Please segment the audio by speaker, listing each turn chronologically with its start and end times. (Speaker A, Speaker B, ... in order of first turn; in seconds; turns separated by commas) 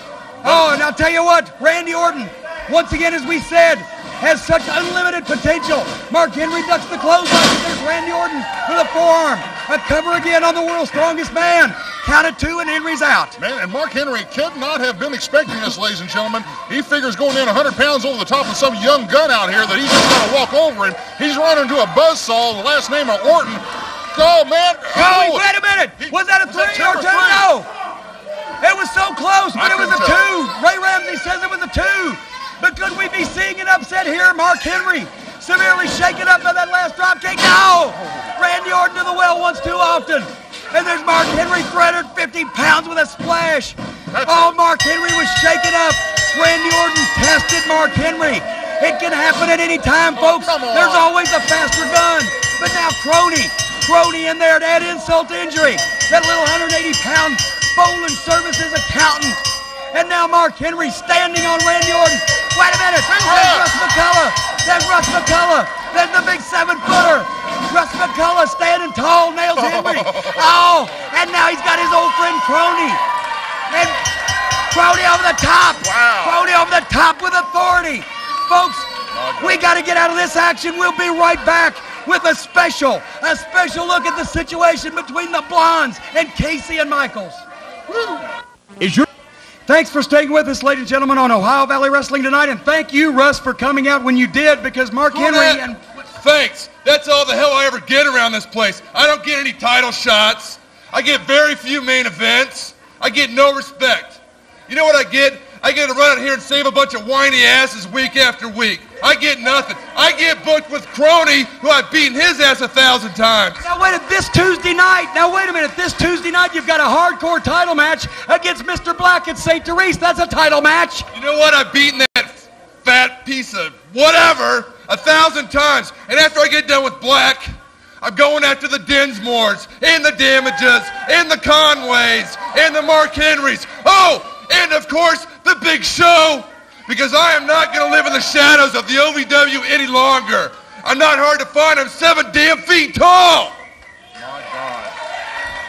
Speaker A: 0.4-13.3, Speaker B: 13.4-25.4, Speaker A: 24.9-27.7, Speaker B: 26.0-27.4, Speaker A: 28.6-73.0, Speaker B: 29.6-30.2, Speaker B: 44.1-44.5, Speaker B: 50.2-51.1, Speaker B: 63.1-63.8, Speaker B: 69.6-70.4, Speaker A: 73.7-74.0, Speaker A: 74.7-87.4, Speaker B: 75.8-76.4, Speaker B: 79.1-79.6, Speaker A: 89.7-95.8, Speaker C: 95.1-113.6, Speaker A: 113.6-121.1, Speaker C: 121.1-127.5, Speaker C: 128.0-143.6, Speaker B: 144.2-144.9